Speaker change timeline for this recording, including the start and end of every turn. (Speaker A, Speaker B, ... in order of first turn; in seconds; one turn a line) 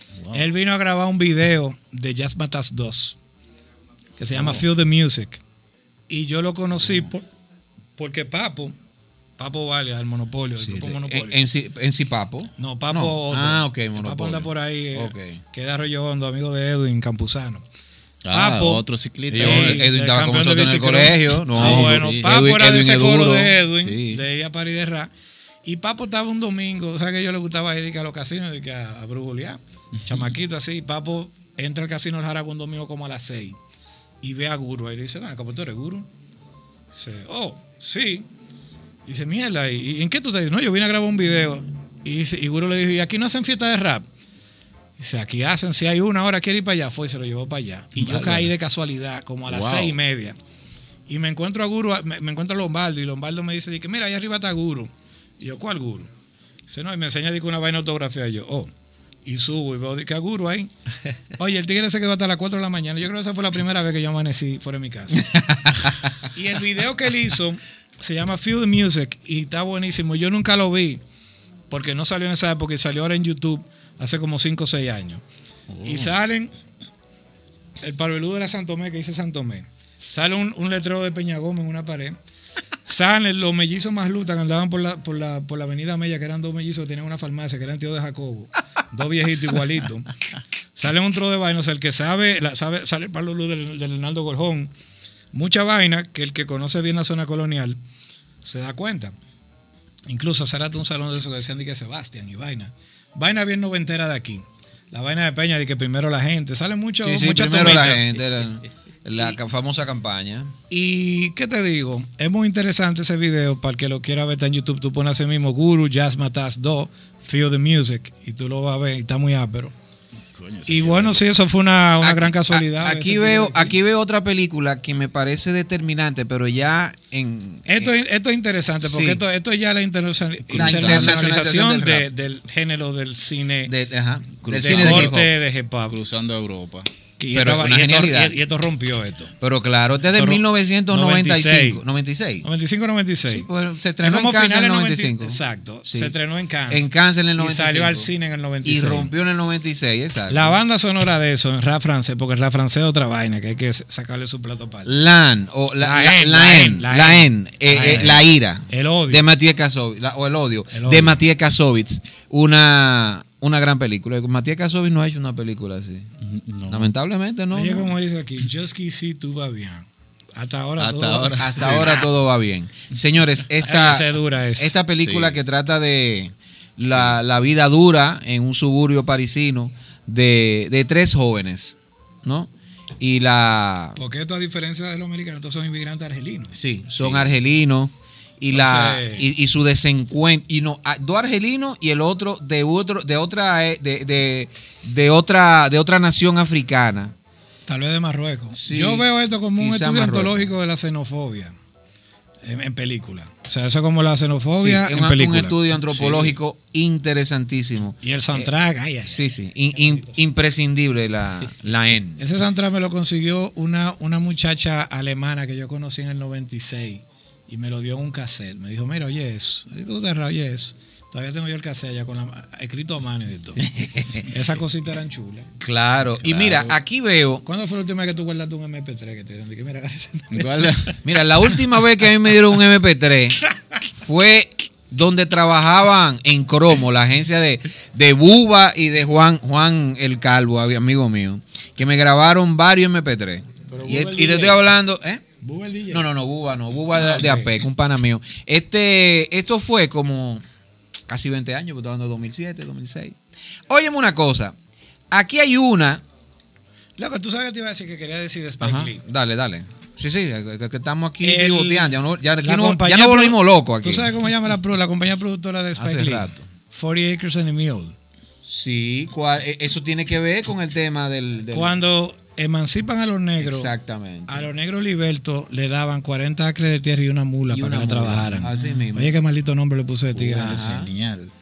Speaker A: 0.1-0.5
Speaker B: 0.3-3.2
Speaker B: 4.2-5.4
Speaker C: 4.4-4.6
Speaker B: 6.1-7.2
Speaker B: 8.0-8.7
Speaker B: 9.4-11.4
Speaker C: 10.6-15.4
Speaker B: 12.6-17.6
Speaker A: 18.2-19.8
Speaker B: 18.3-25.1
Speaker C: 19.3-23.5
Speaker A: 21.5-22.4
Speaker A: 23.8-24.2
Speaker B: 25.6-33.6
Speaker B: 34.2-36.1
Speaker B: 36.9-38.3
Speaker B: 39.0-44.0
Speaker B: 45.0-50.4
Speaker A: 48.0-48.5
Speaker A: 49.5-50.0
Speaker B: 51.1-56.1
Speaker B: 56.7-58.7
Speaker B: 59.2-60.7
Speaker B: 61.3-65.3
Speaker C: 65.2-66.1
Speaker B: 66.3-71.0
Speaker B: 71.7-75.2
Speaker A: 75.7-76.2
Speaker B: 75.8-76.5
Speaker B: 77.8-82.2
Speaker B: 82.9-90.1
Speaker B: 90.8-94.7
Speaker B: 95.3-97.8
Speaker B: 98.4-99.1
Speaker B: 100.1-108.1
Speaker C: 107.0-110.5
Speaker B: 110.7-119.7
Speaker A: 120.3-121.3
Speaker B: 120.7-123.7
Speaker C: 122.0-127.9
Speaker B: 127.7-133.7
Speaker C: 128.8-129.2
Speaker C: 130.5-132.1
Speaker A: 130.5-131.2
Speaker C: 133.7-135.3
Speaker A: 134.4-135.2
Speaker B: 134.5-135.9
Speaker A: 135.9-136.9
Speaker B: 137.2-139.3
Speaker C: 137.3-138.4
Speaker C: 139.4-142.4
Speaker B: 140.0-141.8
Speaker B: 142.4-143.5
Speaker C: 143.3-146.1
Speaker B: 144.0-149.1
Speaker C: 146.7-148.1
Speaker C: 148.6-150.6
Speaker B: 150.3-154.9
Speaker C: 154.9-166.1
Speaker B: 155.8-159.3
Speaker B: 160.7-161.2
Speaker A: 166.2-166.9
Speaker C: 166.7-167.9
Speaker B: 167.5-171.9
Speaker A: 170.8-172.1
Speaker C: 171.4-184.0
Speaker B: 173.6-174.7
Speaker A: 175.0-175.4
Speaker A: 176.9-177.1
Speaker B: 184.0-186.5
Speaker C: 186.5-197.1
Speaker A: 187.0-187.3
Speaker B: 188.5-189.3
Speaker B: 197.7-201.5
Speaker C: 198.5-199.1
Speaker C: 199.6-200.5
Speaker B: 202.4-205.6
Speaker C: 204.6-208.5
Speaker A: 205.9-206.4
Speaker B: 208.0-210.2
Speaker C: 209.1-212.3
Speaker B: 212.2-223.6
Speaker C: 223.6-224.3
Speaker B: 224.2-225.5
Speaker C: 225.6-227.4
Speaker A: 226.2-226.7
Speaker B: 227.4-231.0
Speaker A: 230.3-231.0
Speaker C: 231.0-233.4
Speaker C: 233.9-245.3
Speaker B: 243.7-244.7
Speaker B: 245.4-246.1
Speaker C: 245.9-250.4
Speaker B: 246.9-247.5
Speaker C: 251.1-253.2
Speaker C: 253.7-254.6
Speaker C: 255.1-256.0
Speaker B: 257.0-259.0
Speaker C: 258.6-264.1
Speaker B: 261.2-267.9
Speaker C: 265.8-266.4
Speaker C: 268.4-271.7
Speaker B: 271.5-273.7
Speaker C: 273.4-274.5
Speaker B: 274.3-280.8
Speaker C: 277.5-279.1
Speaker A: 280.1-281.3
Speaker C: 280.2-280.9